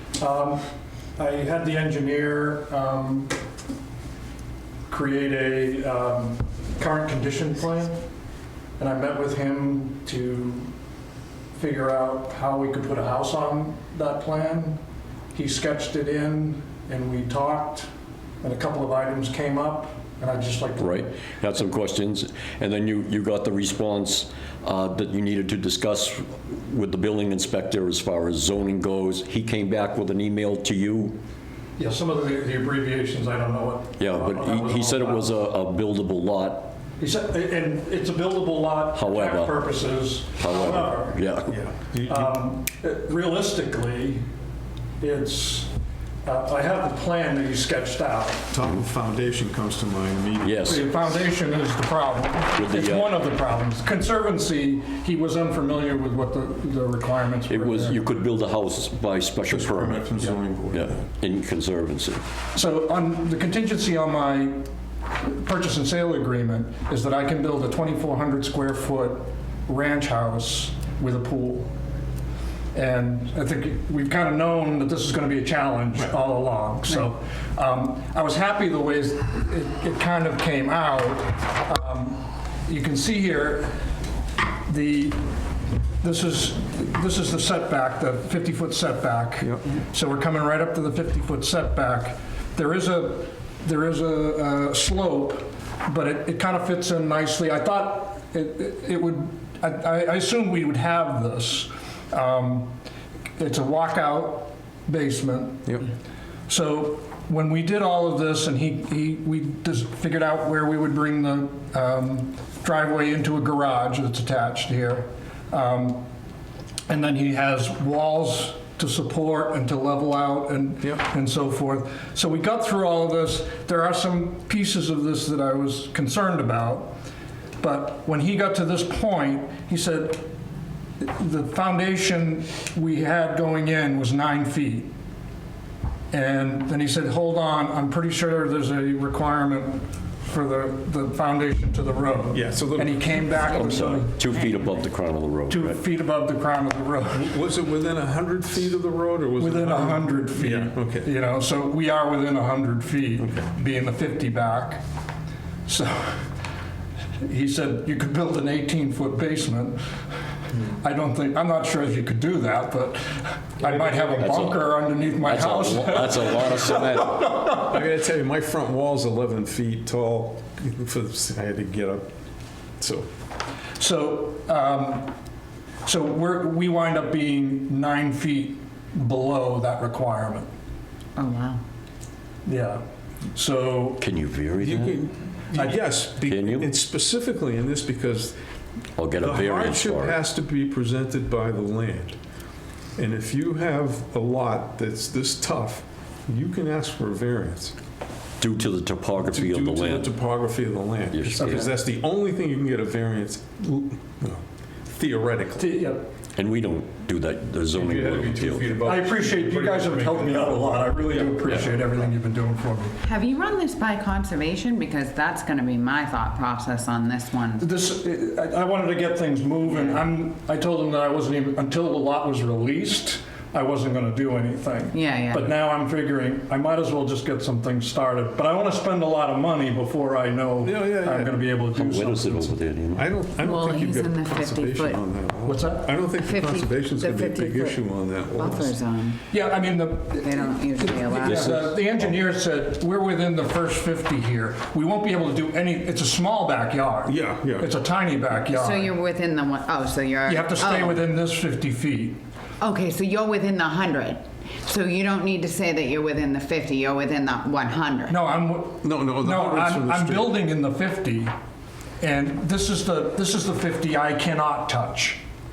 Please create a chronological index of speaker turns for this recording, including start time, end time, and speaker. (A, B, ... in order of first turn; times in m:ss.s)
0:00.2-0:00.6 A
0:01.2-0:03.4 A
0:04.9-0:08.0 A
0:08.8-0:10.7 A
0:11.5-0:14.8 A
0:15.3-0:17.9 A
0:18.4-0:21.0 A
0:20.8-0:31.2 B
0:31.8-0:35.3 A
0:34.0-0:36.8 B
0:37.0-0:41.2 A
0:38.9-0:39.6 B
0:40.4-0:41.5 B
0:41.5-0:42.4 C
0:42.1-0:44.2 A
0:45.0-0:45.7 A
0:46.2-0:48.5 A
0:48.5-0:50.7 C
0:50.4-0:50.9 B
0:50.6-0:58.0 A
0:52.5-0:53.2 B
0:57.5-1:02.2 B
0:59.5-1:01.0 C
1:02.5-1:11.7 A
1:12.7-1:23.8 A
1:24.6-1:25.2 A
1:26.0-1:42.7 A
1:43.4-1:45.8 A
1:46.5-1:56.1 A
1:56.9-2:06.9 A
2:07.6-2:10.3 A
2:11.0-2:14.9 A
2:16.1-2:24.3 A
2:22.3-2:23.2 C
2:23.4-2:25.8 B
2:25.5-2:27.3 A
2:27.1-2:31.1 C
2:29.4-2:34.8 A
2:35.7-2:36.3 A
2:37.2-2:39.8 A
2:40.7-2:47.8 A
2:43.6-2:44.2 C
2:44.2-2:47.3 B
2:47.7-2:52.1 C
2:52.8-2:53.1 C
2:53.8-2:55.1 A
2:55.8-3:00.5 A
3:01.2-3:01.6 D
3:02.4-3:02.8 A
3:03.3-3:04.0 A
3:04.0-3:05.0 B
3:04.6-3:08.4 C
3:05.5-3:06.0 A
3:06.2-3:06.7 B
3:09.0-3:10.2 B
3:09.2-3:12.2 C
3:13.0-3:17.7 C
3:18.4-3:20.1 B
3:19.3-3:25.7 C
3:21.1-3:21.7 B
3:25.6-3:26.1 A
3:26.4-3:28.7 B
3:27.7-3:31.5 C
3:28.8-3:33.0 A
3:33.0-3:37.7 D
3:37.6-3:52.5 A
3:39.7-3:40.1 D
3:44.9-3:45.5 D
3:50.6-3:51.4 C
3:51.7-3:53.1 B
3:53.0-3:58.8 C
3:53.4-3:55.0 D
3:55.5-3:55.9 A
3:56.2-3:59.2 D
3:59.3-4:09.0 A
4:00.2-4:01.6 D
4:01.2-4:01.8 B
4:07.1-4:07.7 C
4:08.5-4:11.0 D
4:10.3-4:12.2 A
4:12.6-4:18.2 D
4:18.1-4:21.3 A
4:18.8-4:20.4 C
4:22.0-4:25.2 A